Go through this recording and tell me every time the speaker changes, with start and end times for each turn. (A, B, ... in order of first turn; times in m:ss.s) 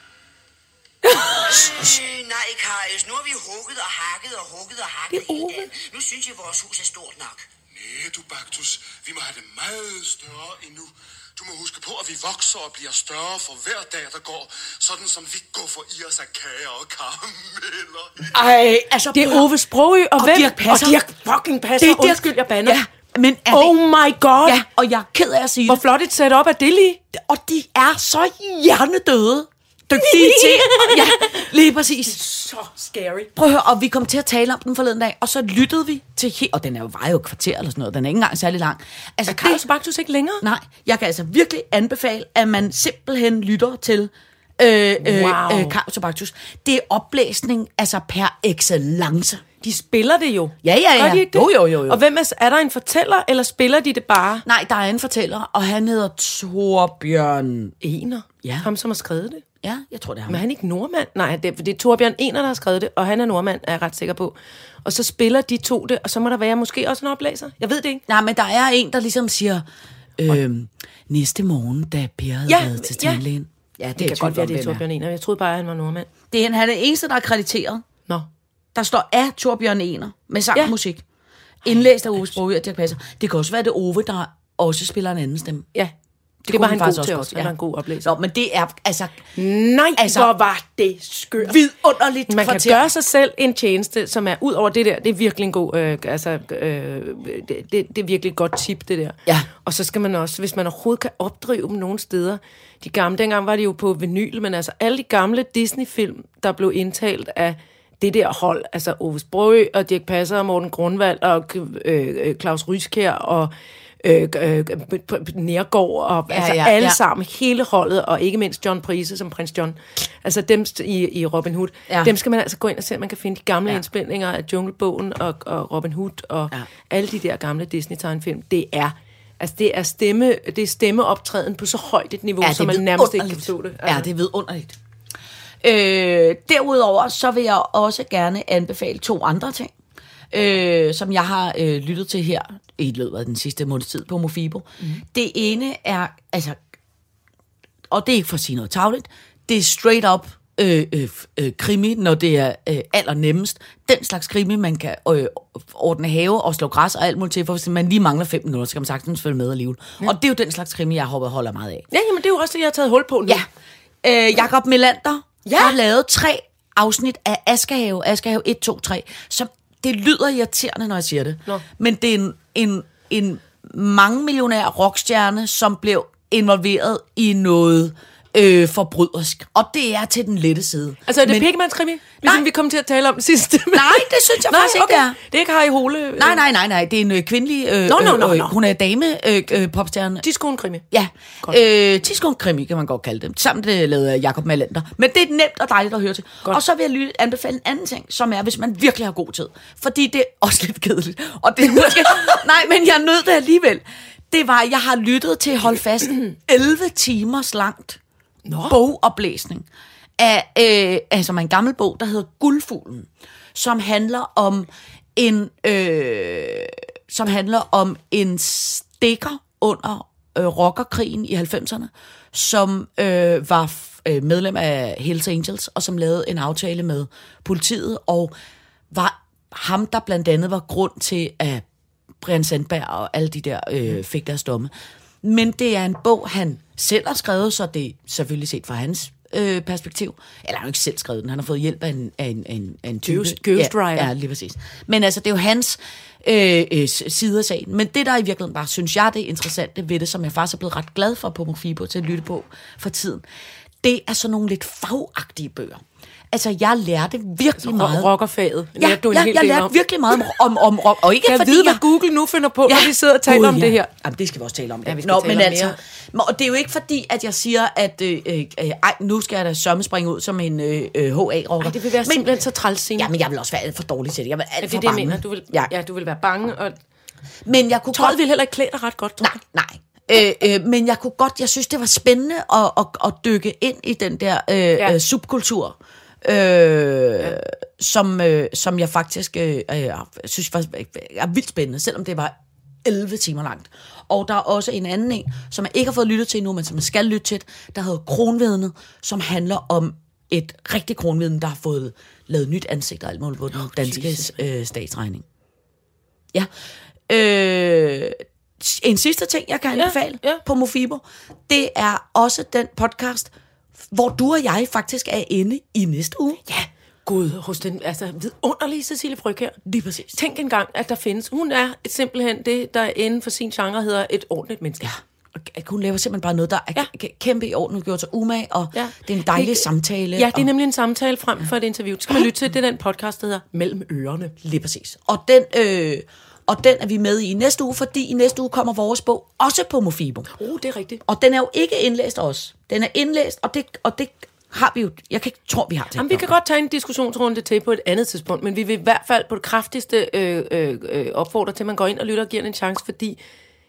0:01.0-0:01.8 A
0:01.0-0:07.5 B
0:05.1-0:05.7 C
0:07.7-0:18.3 D
0:18.3-0:19.5 A
0:19.1-0:22.8 C
0:20.2-0:21.0 A
0:21.8-0:23.8 A
0:23.5-0:24.6 C
0:24.4-0:25.8 A
0:25.7-0:27.0 C
0:27.1-0:32.2 A
0:29.9-0:31.5 C
0:32.1-0:33.3 C
0:33.4-0:39.6 A
0:39.3-0:40.4 C
0:40.4-0:49.4 A
0:45.0-0:45.8 C
0:49.6-0:54.5 C
0:50.6-0:52.0 A
0:54.4-0:57.7 A
0:57.8-0:59.4 C
0:58.4-0:58.7 A
0:59.6-1:00.4 A
1:00.3-1:08.0 C
1:08.1-1:09.6 A
1:10.2-1:14.8 A
1:12.5-1:13.2 C
1:14.0-1:16.1 C
1:16.3-1:17.8 A
1:18.7-1:21.0 A
1:21.6-1:25.7 A
1:26.4-1:29.2 A
1:26.5-1:28.1 C
1:29.4-1:31.6 C
1:30.0-1:30.3 A
1:31.4-1:32.8 A
1:32.3-2:14.1 C
1:56.3-1:57.0 A
2:12.4-2:14.8 A
2:15.6-2:19.7 A
2:20.3-2:26.6 A
2:27.9-2:41.8 A
2:41.9-2:43.4 C
2:44.0-3:01.5 A
2:45.4-2:45.8 C
3:01.1-3:06.4 C
3:03.7-3:05.2 A
3:06.2-3:10.2 A
3:07.9-3:08.6 C
3:10.2-3:10.8 C
3:10.9-3:28.0 A
3:28.4-3:28.8 C
3:28.6-3:29.7 A
3:30.2-3:48.3 A
3:48.9-3:51.6 A
3:52.2-3:54.7 A
3:55.2-4:13.2 A
4:03.0-4:04.1 C
4:13.8-4:18.1 A
4:17.6-4:19.7 C
4:18.8-4:21.8 A
4:21.2-4:23.9 C
4:22.7-4:32.4 A
4:24.9-4:25.8 C
4:31.6-4:33.1 C
4:33.0-4:35.7 A
4:34.6-4:36.8 C
4:37.4-4:38.2 A
4:37.9-4:39.4 C
4:39.2-5:05.2 A
5:03.6-5:04.2 C
5:07.1-5:13.3 A
5:09.7-5:10.4 C
5:13.9-5:16.4 A
5:16.4-5:19.6 C
5:19.6-5:20.2 A
5:20.1-5:24.9 C
5:24.8-5:30.5 A
5:28.7-5:34.4 C
5:34.4-5:40.3 A
5:40.3-5:41.0 C
5:41.1-5:46.3 A
5:46.0-5:53.2 C